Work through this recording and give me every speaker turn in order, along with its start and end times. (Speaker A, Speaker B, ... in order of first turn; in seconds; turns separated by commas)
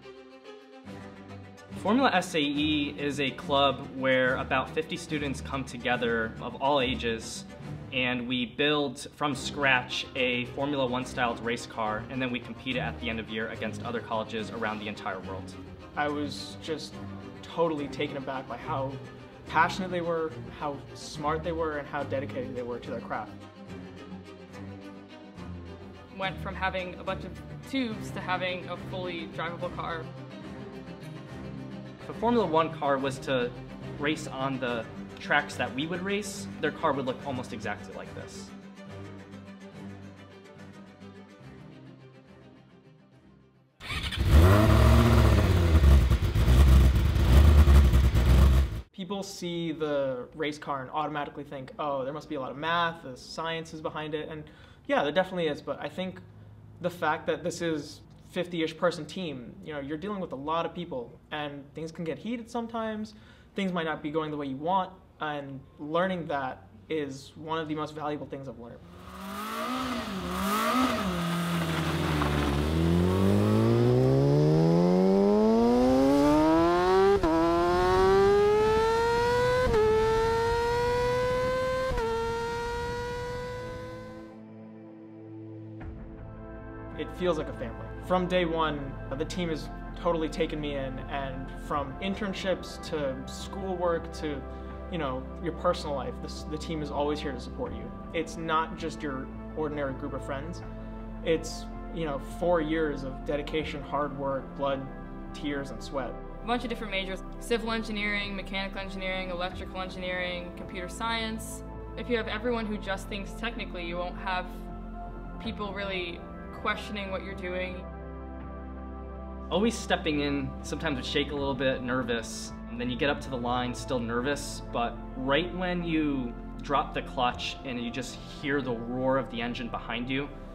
Speaker A: 1.8-15.6, Speaker B: 16.0-23.4, Speaker C: 26.1-30.1, Speaker A: 32.0-38.5, Speaker B: 48.9-56.2, Speaker B: 56.8-68.9, Speaker B: 87.0-100.6, Speaker B: 101.2-106.2, Speaker C: 106.4-114.6, Speaker C: 115.4-117.9, Speaker A: 119.5-130.3